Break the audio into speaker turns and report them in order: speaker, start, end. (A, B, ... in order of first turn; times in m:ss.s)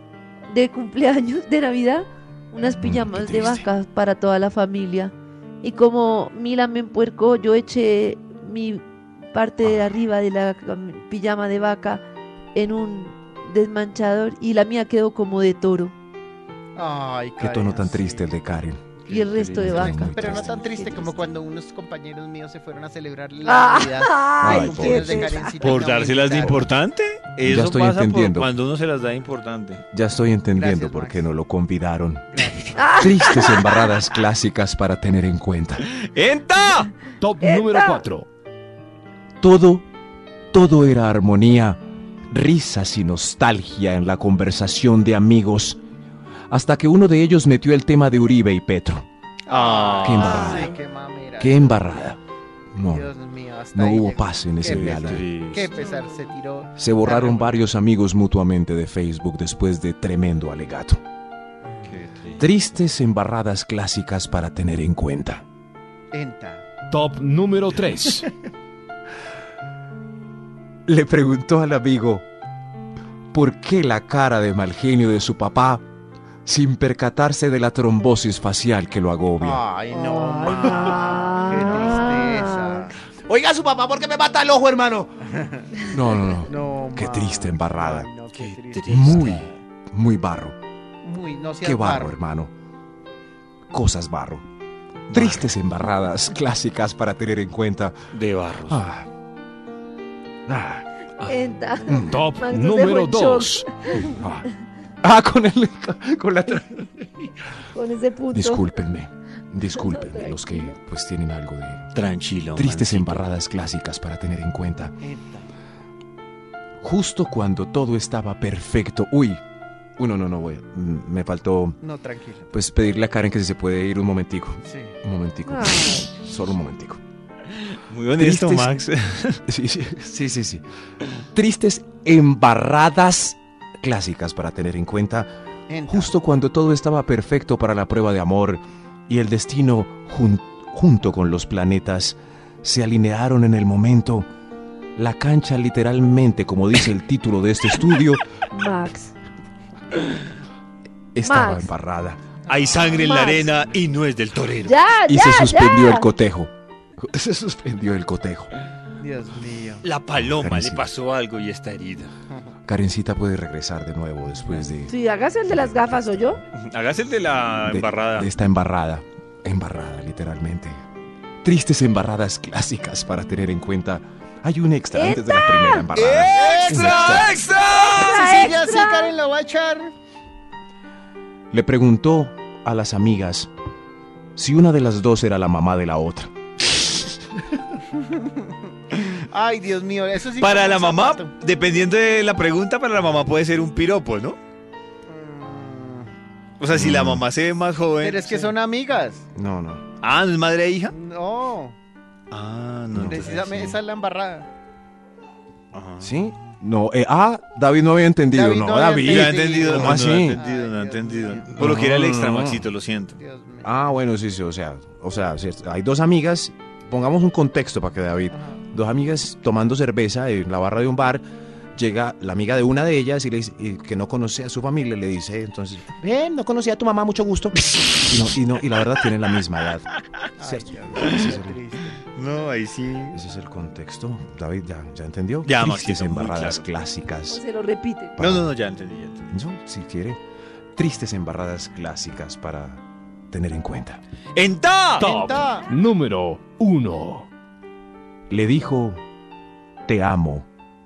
0:00.5-0:12.0 A
0:02.6-0:03.7 B
0:12.5-0:15.9 A
0:16.7-0:18.3 C
0:17.4-0:20.6 B
0:19.1-0:21.3 A
0:19.1-0:19.6 D
0:19.8-0:26.7 C
0:23.4-0:25.6 A
0:24.4-0:25.3 B
0:25.6-0:29.8 D
0:27.4-0:28.5 B
0:29.9-0:32.2 B
0:30.5-0:31.3 C
0:32.3-0:33.0 C
0:32.8-0:33.9 A
0:32.9-0:35.8 B
0:35.8-0:36.9 D
0:37.2-0:38.3 E
0:37.4-0:38.0 A
0:39.4-0:39.8 B
0:40.5-0:45.8 B
0:46.5-0:49.0 B
0:49.4-0:52.0 C
0:49.5-0:50.7 D
0:50.0-0:50.7 B
0:50.3-0:50.6 A
0:51.4-0:52.2 B
0:52.7-0:53.1 B
0:52.8-0:57.7 C
0:53.7-0:55.2 B
0:54.6-0:55.7 D
0:56.8-1:01.0 B
1:01.6-1:01.9 C
1:01.8-1:02.4 D
1:02.4-1:05.4 B
1:06.1-1:06.6 C
1:06.9-1:08.3 E
1:10.9-1:12.2 B
1:13.3-1:15.8 B
1:16.4-1:19.6 B
1:19.4-1:23.0 C
1:19.9-1:22.9 A
1:23.2-1:25.2 B
1:25.4-1:25.7 C
1:25.8-1:28.1 B
1:26.4-1:29.6 C
1:28.3-1:29.4 D
1:28.9-1:30.6 B
1:31.0-1:32.1 C
1:31.6-1:32.5 B
1:33.7-1:34.4 B
1:35.1-1:35.5 D
1:35.1-1:38.0 B
1:38.1-1:38.8 D
1:38.7-1:39.1 B
1:40.5-1:40.8 B
1:41.2-1:44.2 A
1:41.9-1:42.2 B
1:42.0-1:43.6 E
1:44.2-1:44.5 B
1:45.0-1:47.1 B
1:47.6-1:48.6 A
1:48.3-1:51.9 B
1:49.7-1:50.7 A
1:51.9-1:53.2 D
1:52.5-1:54.9 B
1:55.0-1:55.5 C
1:56.8-1:59.4 B
2:00.0-2:01.8 B
2:01.8-2:02.5 C
2:02.5-2:07.0 B
2:04.6-2:05.0 C
2:05.4-2:06.0 A
2:07.7-2:09.4 D
2:08.2-2:08.7 B
2:09.5-2:10.6 B
2:11.2-2:15.3 B
2:15.7-2:16.1 C
2:15.9-2:24.3 B
2:25.0-2:28.2 B
2:28.5-2:29.1 A
2:31.1-2:32.2 B
2:31.2-2:31.7 A
2:32.5-2:33.8 C
2:32.5-2:34.8 D
2:33.0-2:33.4 A
2:34.6-2:36.1 A
2:35.0-2:38.5 B
2:39.0-2:39.9 C
2:39.8-2:42.1 D
2:40.2-2:40.9 B
2:42.6-2:44.9 B
2:44.9-2:46.4 A
2:46.5-2:48.3 D
2:47.7-2:50.8 B
2:51.4-2:57.3 B
2:54.9-2:55.9 A
2:56.0-2:58.4 D
2:56.3-2:57.4 C
2:57.9-2:59.1 A
2:57.9-2:59.9 C
3:01.5-3:03.5 B
3:04.4-3:06.3 B
3:07.9-3:11.3 C
3:10.4-3:14.4 D
3:15.0-3:16.1 C
3:16.6-3:18.5 D
3:16.7-3:17.2 B
3:18.0-3:19.2 C
3:19.3-3:19.8 B
3:20.0-3:20.9 D
3:20.9-3:21.8 C
3:22.3-3:23.8 D
3:22.9-3:23.4 B
3:23.0-3:24.5 C
3:25.7-3:26.4 D
3:26.0-3:30.4 B
3:28.3-3:31.5 C
3:29.0-3:33.2 D
3:31.5-3:32.7 B
3:33.2-3:33.7 C
3:33.6-3:41.2 B
3:38.3-3:38.6 C
3:41.8-3:51.6 B
3:50.4-3:52.0 C
3:52.1-3:53.2 D
3:53.1-3:57.4 B
3:55.4-3:56.6 D
3:57.3-3:58.1 A
3:58.2-3:58.5 B
3:58.2-3:59.3 D
3:59.3-4:00.2 B
4:00.8-4:04.0 B
4:04.3-4:05.4 D
4:05.0-4:05.7 C
4:05.0-4:07.3 E
4:08.3-4:09.0 B
4:09.9-4:10.5 B